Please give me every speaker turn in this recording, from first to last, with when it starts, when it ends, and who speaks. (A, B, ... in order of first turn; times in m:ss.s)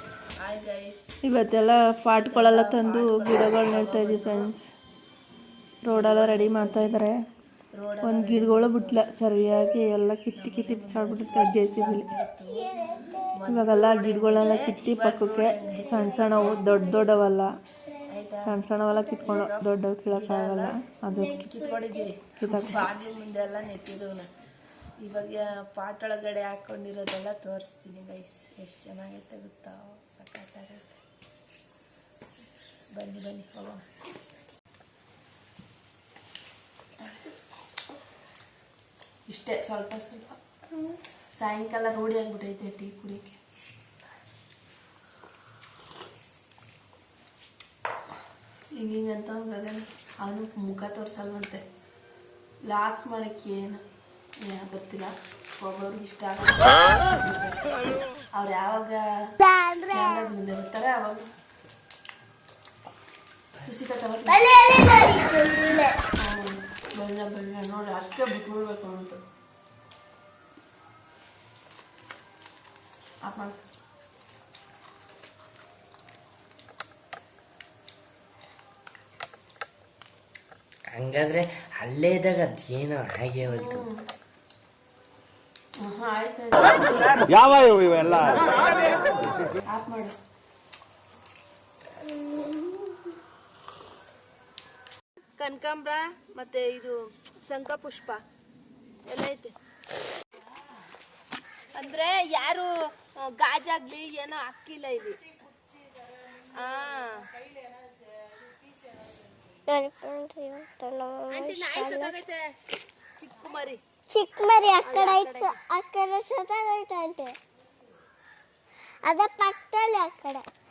0:00.4-0:01.1 A
0:01.2-0:04.7 B
0:02.2-0:04.5 A
0:05.8-0:07.2 B
0:05.9-0:07.0 A
0:07.7-0:09.1 A
0:08.0-0:12.1 B
0:10.4-0:12.8 A
0:12.5-0:13.3 C
0:13.3-0:16.7 A
0:13.5-0:17.5 B
0:15.7-0:17.1 C
0:18.1-0:18.5 A
0:18.4-0:21.5 B
0:18.9-0:19.4 C
0:19.1-0:24.3 A
0:21.1-0:22.1 C
0:22.4-0:22.9 B
0:25.0-0:31.0 A
0:32.9-0:33.8 A
0:39.3-0:40.4 A
0:41.4-0:43.4 A
0:48.8-0:51.6 A
0:52.7-0:53.8 A
0:54.4-0:57.6 A
0:58.3-0:59.0 A
0:59.4-1:00.3 C
0:59.9-1:01.3 A
1:03.6-1:04.4 A
1:04.3-1:06.0 C
1:06.2-1:09.2 A
1:13.2-1:13.6 A
1:20.9-1:23.9 D
1:23.5-1:24.0 A
1:25.8-1:28.4 A
1:29.7-1:30.2 A
1:32.1-1:32.6 C
1:35.4-1:38.2 A
1:39.1-1:39.5 A
1:41.7-1:45.2 A
1:46.5-1:47.3 A
1:49.7-1:52.2 C
1:51.3-1:52.5 A
1:53.2-1:53.8 A
1:54.1-1:57.4 C
1:54.8-1:55.6 A
1:59.0-2:00.5 C